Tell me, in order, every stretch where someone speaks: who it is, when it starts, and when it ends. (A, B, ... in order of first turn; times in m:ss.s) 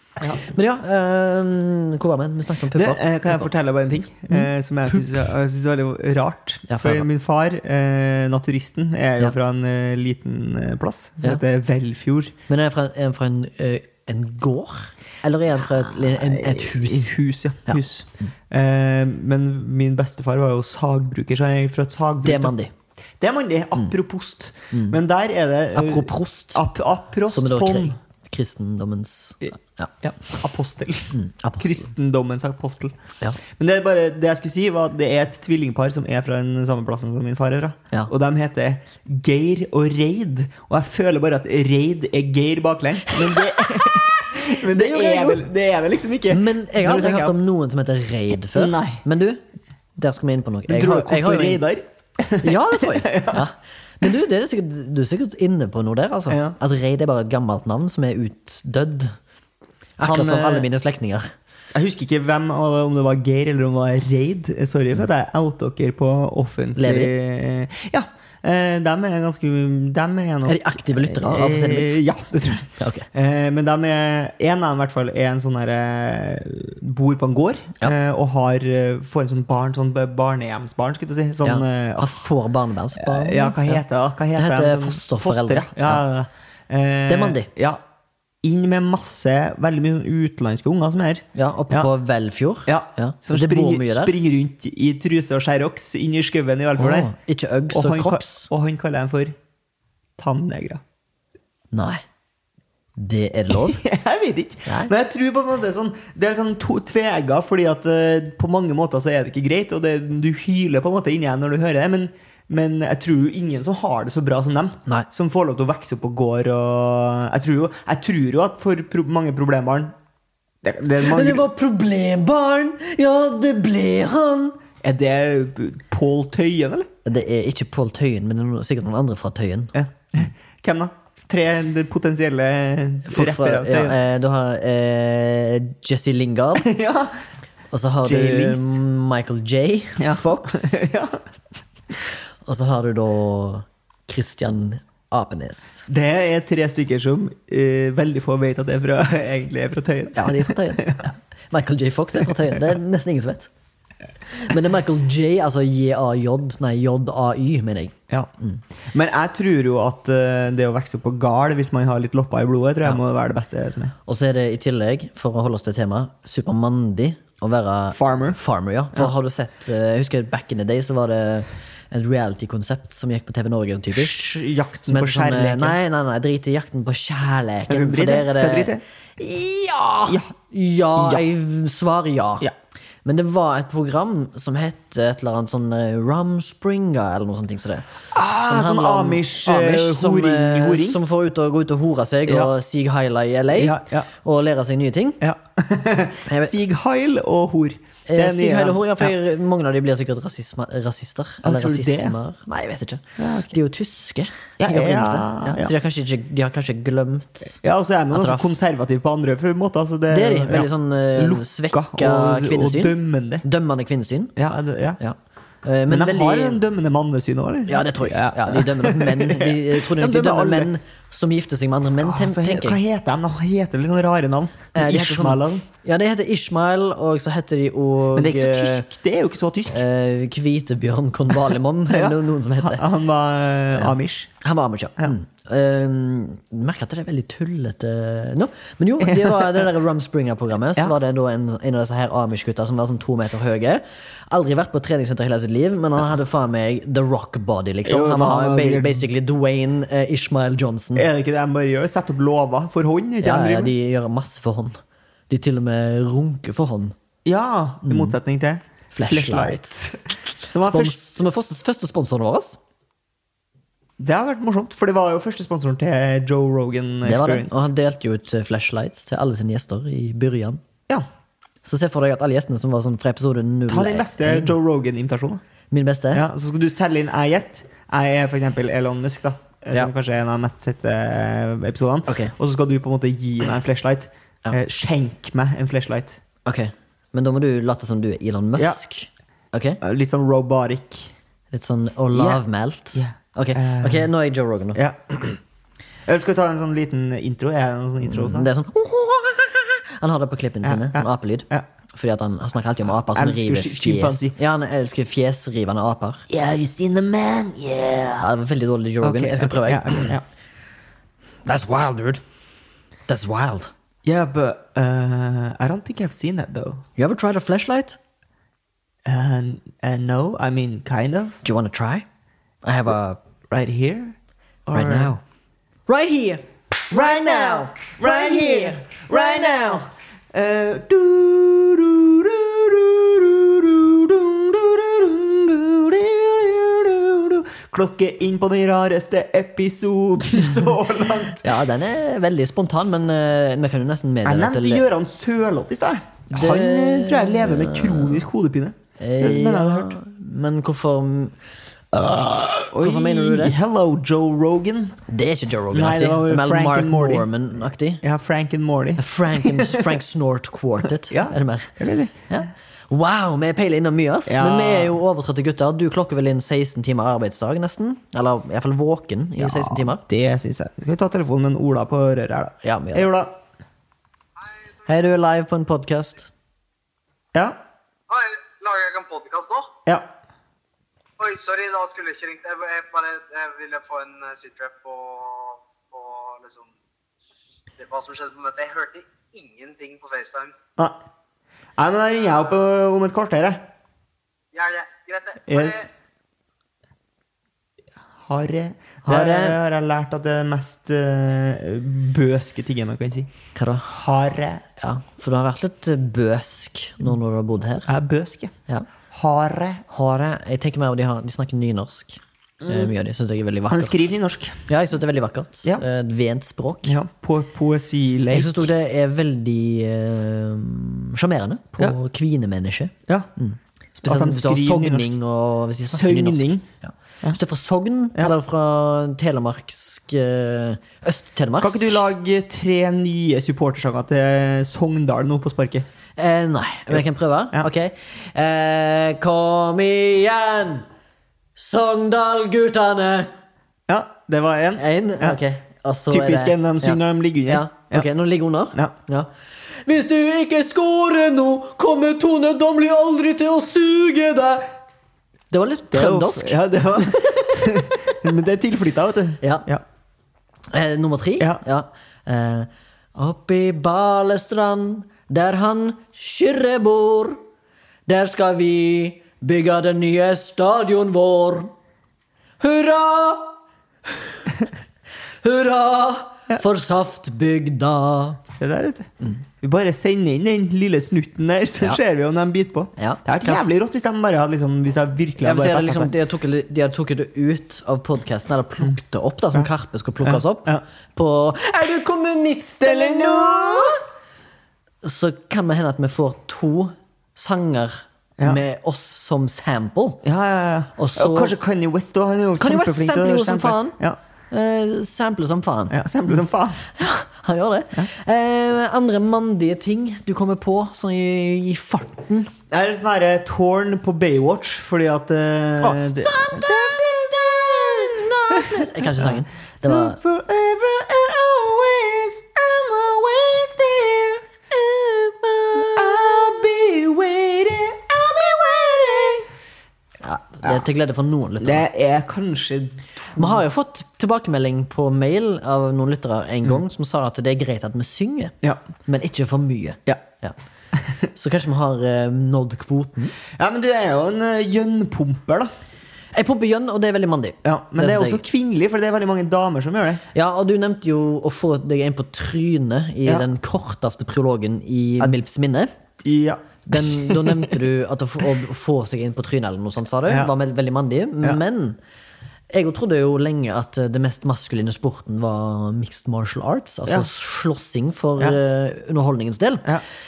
0:00.3-0:03.5 A
0:02.7-0:12.4 B
0:04.3-0:05.0 A
0:06.7-0:07.1 A
0:12.5-0:17.1 A
0:15.8-0:22.6 B
0:22.2-0:22.7 A
0:23.2-0:28.0 B
0:24.7-0:25.0 A
0:25.7-0:26.6 A
0:27.3-0:29.9 A
0:30.0-0:33.0 B
0:31.1-0:31.9 A
0:33.5-0:47.4 B
0:44.5-0:45.5 A
0:46.3-0:49.4 A
0:48.5-0:49.0 B
0:50.0-0:51.6 A
0:50.7-0:53.5 B
0:52.4-0:59.2 A
0:56.3-0:56.6 B
1:00.0-1:01.3 A
1:00.0-1:00.7 B
1:01.7-1:22.2 B
1:06.8-1:07.1 A
1:10.4-1:11.9 A
1:12.8-1:13.1 A
1:21.4-1:23.8 A
1:23.0-1:27.8 B
1:24.4-1:26.0 A
1:27.1-1:27.5 A
1:28.4-1:31.9 B
1:31.4-1:34.2 A
1:32.7-1:37.1 B
1:36.8-1:38.5 A
1:37.7-1:39.4 B
1:40.2-1:40.8 B
1:41.7-1:42.0 A
1:43.0-1:43.8 A
1:43.5-2:00.0 B
1:44.7-1:44.9 A
2:00.6-2:01.4 B
2:01.0-2:04.6 A
2:04.8-2:06.9 B
2:07.0-2:09.8 A
2:09.7-2:14.0 B
2:13.1-2:16.7 A
2:16.6-2:17.2 B
2:17.7-2:20.8 A
2:18.0-2:18.8 B
2:20.0-2:21.2 B
2:22.4-2:25.8 A
2:25.9-2:31.1 B
2:30.2-2:33.5 A
2:34.3-2:38.6 A
2:38.9-2:44.0 B
2:44.1-2:54.2 A
2:47.9-2:48.4 B
2:53.9-2:55.8 B
2:54.9-3:02.5 A
2:57.7-2:58.8 B
3:00.1-3:00.3 B
3:01.0-3:01.3 B
3:03.0-3:07.9 A
3:08.1-3:11.0 B
3:08.4-3:15.2 A
3:12.3-3:12.5 B
3:13.6-3:14.1 B
3:15.2-3:19.1 B
3:16.3-3:16.5 A
3:18.1-3:27.6 A
3:21.4-3:22.2 B
3:23.2-3:23.6 B
3:24.6-3:25.7 B
3:27.6-3:33.4 B
3:28.1-3:28.6 A
3:30.1-3:34.3 A
3:34.4-3:35.0 B
3:35.0-3:36.6 A
3:35.9-3:40.7 B
3:37.7-3:42.8 A
3:42.0-3:45.7 B
3:44.7-3:48.9 A
3:48.1-3:49.8 B
3:49.7-3:52.8 A
3:51.9-3:54.3 B
3:53.8-4:11.1 A
3:59.0-3:59.7 B
4:07.9-4:09.1 B
4:11.0-4:13.7 B
4:13.2-4:14.8 A
4:15.3-4:17.0 A
4:17.2-4:21.0 B
4:17.8-4:18.2 A
4:18.9-4:19.8 A
4:20.6-4:22.6 A
4:24.0-4:27.7 B
4:27.0-4:30.6 A
4:31.6-4:34.6 A
4:33.7-4:35.4 B
4:35.7-4:36.2 A
4:36.1-4:46.2 B
4:42.1-4:42.3 A
4:46.4-4:49.8 A
4:49.8-4:51.1 B
4:51.5-4:54.8 A
4:52.1-4:52.4 B
4:53.0-4:54.1 B
4:54.8-4:55.1 B
4:56.1-4:58.5 B
4:58.0-5:06.2 A
5:00.6-5:01.7 B
5:03.1-5:04.4 B
5:06.3-5:08.3 B
5:08.2-5:10.1 A
5:09.0-5:10.2 B
5:11.4-5:12.2 A
5:13.1-5:13.7 A
5:14.0-5:16.8 B
5:17.0-5:18.0 A
5:19.0-5:21.4 B
5:21.4-5:22.1 A
5:22.6-5:23.2 A
5:23.5-5:25.1 B
5:24.7-5:25.2 A
5:25.9-5:28.8 A
5:26.9-5:41.6 B
5:41.4-5:44.8 A
5:44.2-5:50.0 B
5:46.3-5:48.3 A
5:49.0-5:51.4 A
5:51.9-5:53.6 A
5:52.6-5:55.0 B
5:55.1-5:58.0 A
5:55.7-5:57.3 B
5:58.0-6:00.0 B
5:59.0-6:01.8 A
6:01.0-6:02.2 B
6:02.3-6:10.0 A
6:04.3-6:05.0 B
6:09.4-6:13.4 B
6:12.6-6:13.1 A
6:14.9-6:16.3 A
6:18.1-6:19.7 C
6:19.9-6:20.1 B
6:21.2-6:26.7 C
6:27.8-6:30.6 C
6:31.8-6:33.7 B
6:34.5-6:35.9 C
6:35.5-6:35.9 B
6:38.2-6:43.3 B
6:39.0-6:39.6 A
6:43.6-6:43.9 A
6:43.9-6:44.6 B
6:44.8-6:47.9 A
6:47.9-6:48.6 B
6:49.1-6:49.8 B
6:49.9-6:54.2 A
6:52.6-6:52.9 B
6:53.7-6:54.6 B
6:54.7-6:57.0 A
6:56.8-6:58.7 B
6:58.3-7:12.1 A
7:04.1-7:05.1 B
7:05.9-7:06.7 B
7:11.6-7:15.9 B
7:16.2-7:20.9 A
7:21.6-7:23.3 A
7:23.9-7:25.4 B
7:24.8-7:29.3 A
7:26.1-7:28.1 B
7:29.8-7:34.7 A
7:35.5-7:37.4 A
7:35.9-7:39.8 B
7:39.4-7:39.7 A
7:40.7-7:47.4 A
7:48.1-7:51.7 A
7:52.6-7:53.5 A
7:54.2-7:54.5 A
7:55.4-7:58.4 A
7:58.5-8:06.1 B
8:03.0-8:03.8 A
8:05.4-8:14.0 A
8:10.2-8:10.8 B
8:12.8-8:14.0 B
8:15.0-8:20.2 A
8:20.2-8:24.2 B
8:21.0-8:21.6 A
8:22.6-8:24.0 A
8:24.5-8:26.0 A
8:25.9-8:26.9 B
8:27.0-8:32.5 A
8:32.7-8:49.5 B
8:35.8-8:40.2 A
8:45.4-8:46.0 A
8:50.2-8:51.8 A
8:51.6-8:53.6 B
8:53.4-8:58.5 A
8:59.0-9:00.6 A
9:01.3-9:03.4 A
9:03.6-9:05.7 B
9:06.3-9:08.4 A
9:07.6-9:10.2 B
9:10.3-9:15.9 A
9:16.2-9:17.8 B
9:16.9-9:22.0 A
9:20.3-9:20.5 B
9:22.7-9:29.9 A